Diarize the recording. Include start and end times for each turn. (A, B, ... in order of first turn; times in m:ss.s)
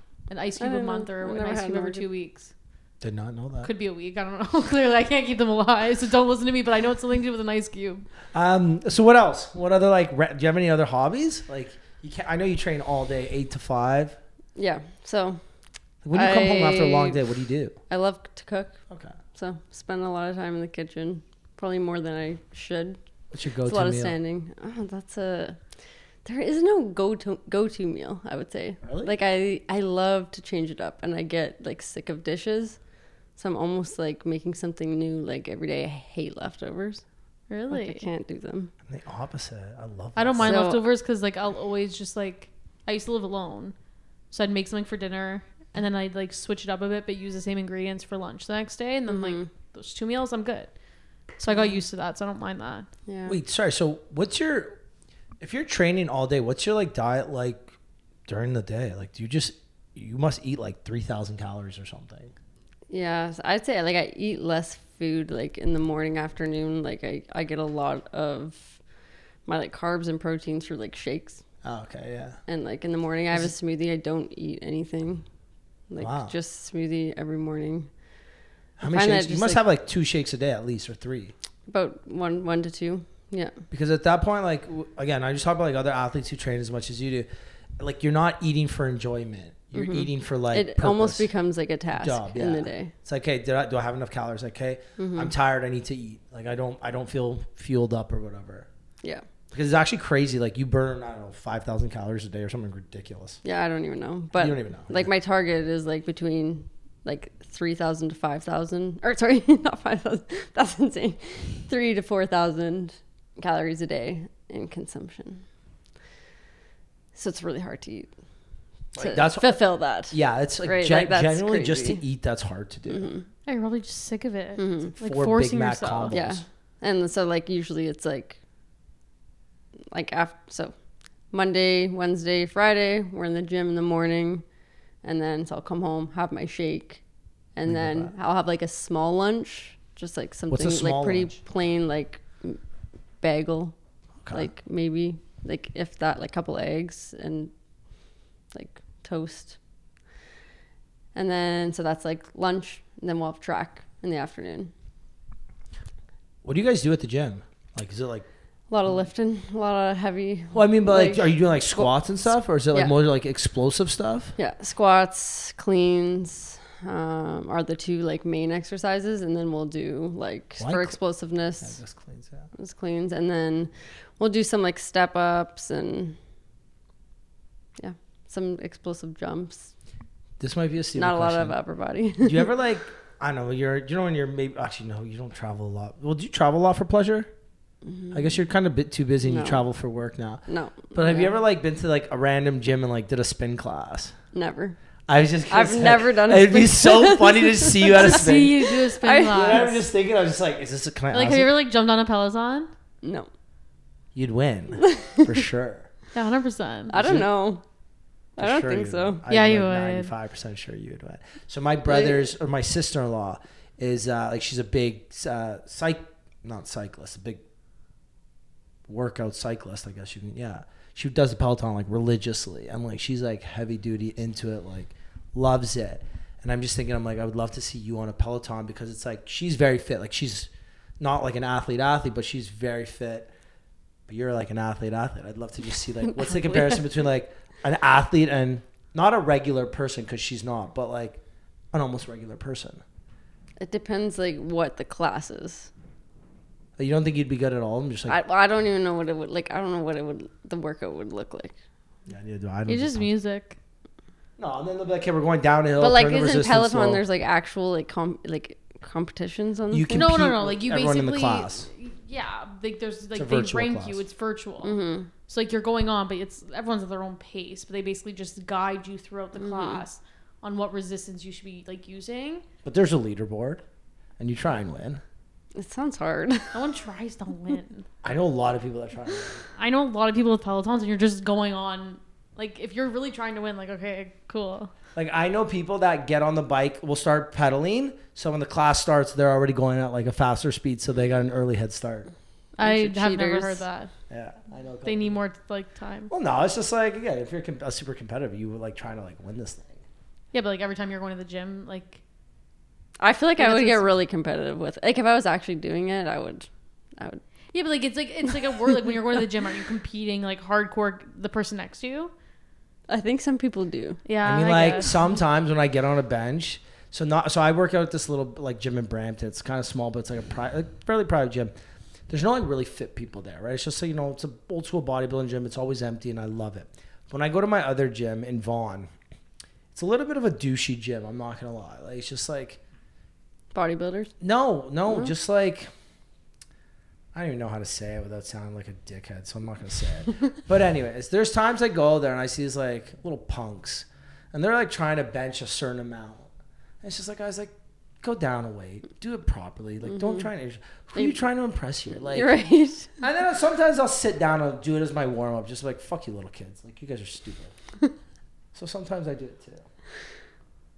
0:00.3-0:02.5 A
0:00.6-0:02.1 B
0:03.0-0:03.7 C
0:03.6-0:08.1 A
0:08.3-0:14.2 C
0:14.6-0:15.4 B
0:16.0-0:17.8 C
0:16.1-0:17.2 B
0:17.9-0:18.8 B
0:18.9-0:19.2 C
0:19.3-0:23.0 B
0:23.3-0:24.2 C
0:23.6-0:25.6 B
0:26.2-0:32.8 B
0:28.8-0:29.1 C
0:33.4-0:37.0 B
0:37.5-0:38.1 A
0:37.7-0:38.7 B
0:38.9-0:40.6 C
0:40.2-0:43.7 A
0:40.4-0:40.8 B
0:44.3-0:50.7 A
0:49.1-0:49.5 B
0:51.4-0:52.9 A
0:53.1-0:53.4 B
0:53.3-0:54.8 C
0:55.4-0:57.7 C
0:58.3-1:02.3 C
1:02.9-1:08.8 B
1:09.5-1:11.4 B
1:11.6-1:12.4 C
1:12.5-1:15.2 B
1:15.9-1:17.9 B
1:16.0-1:16.3 C
1:18.8-1:21.3 C
1:18.8-1:19.6 B
1:21.7-1:23.6 B
1:23.7-1:27.3 C
1:27.8-1:31.3 C
1:29.7-1:32.9 B
1:32.0-1:38.7 C
1:35.0-1:35.3 B
1:39.5-1:43.4 C
1:43.4-1:55.4 B
1:44.4-1:45.1 C
1:57.2-1:58.1 B
1:59.0-2:03.1 C
1:59.0-2:02.0 B
2:02.9-2:03.3 B
2:03.5-2:06.1 A
2:04.6-2:04.9 B
2:05.0-2:06.4 C
2:06.1-2:08.4 B
2:09.9-2:10.7 B
2:11.3-2:14.4 B
2:15.0-2:17.0 B
2:17.6-2:22.6 B
2:17.7-2:18.1 C
2:20.5-2:21.4 C
2:23.2-2:23.8 B
2:24.2-2:24.5 C
2:24.3-2:27.5 B
2:28.5-2:29.6 B
2:31.2-2:34.7 B
2:36.4-2:38.3 C
2:38.7-2:42.0 B
2:40.5-2:44.4 C
2:44.4-2:51.8 B
2:50.6-2:51.0 C
2:51.6-2:52.5 C
2:52.6-2:56.2 B
2:57.8-2:59.7 B
3:00.4-3:01.6 C
3:01.0-3:02.5 B
3:02.2-3:07.3 C
3:07.8-3:08.3 B
3:08.1-3:10.4 C
3:09.2-3:09.6 B
3:10.5-3:11.4 B
3:10.9-3:14.1 C
3:14.3-3:14.8 B
3:15.1-3:18.6 C
3:15.5-3:19.8 B
3:17.9-3:19.8 A
3:19.3-3:21.6 C
3:21.1-3:22.7 A
3:23.0-3:23.3 B
3:24.2-3:25.9 C
3:24.8-3:25.3 B
3:26.1-3:26.9 A
3:26.9-3:27.6 B
3:26.9-3:27.3 C
3:28.4-3:29.2 B
3:28.4-3:37.4 C
3:29.3-3:30.1 A
3:31.9-3:32.3 B
3:38.9-3:53.3 C
3:54.1-4:01.2 C
3:56.2-3:56.8 B
4:01.7-4:02.8 C
4:03.6-4:05.7 B
4:06.8-4:08.2 C
4:08.1-4:11.6 B
4:12.1-4:13.1 C
4:12.7-4:13.6 A
4:14.4-4:17.0 C
4:15.8-4:20.1 B
4:19.7-4:21.7 C
4:19.9-4:32.4 A
4:23.2-4:24.0 C
4:24.6-4:25.1 B
4:29.4-4:29.8 B
4:32.6-4:33.6 C
4:34.2-4:35.0 C
4:35.6-4:36.6 B
4:36.5-4:37.9 A
4:38.0-4:39.4 C
4:39.6-4:44.7 A
4:45.0-4:52.1 C
4:52.6-4:53.9 A
4:52.6-4:53.6 B
4:54.1-4:55.2 C
4:54.8-4:56.1 A
4:56.1-4:59.8 C
5:00.3-5:02.0 A
5:03.0-5:07.2 B
5:03.4-5:03.9 A
5:07.5-5:12.1 A
5:12.9-5:14.0 B
5:14.1-5:15.0 A
5:14.2-5:21.5 C
5:22.1-5:28.9 C
5:29.7-5:32.6 C
5:33.5-5:34.1 B
5:34.2-5:35.7 C
5:37.1-5:46.3 C
5:46.8-5:52.3 C
5:49.9-5:50.3 B
5:52.0-5:53.0 B
5:53.0-5:57.5 C
5:58.5-5:59.6 C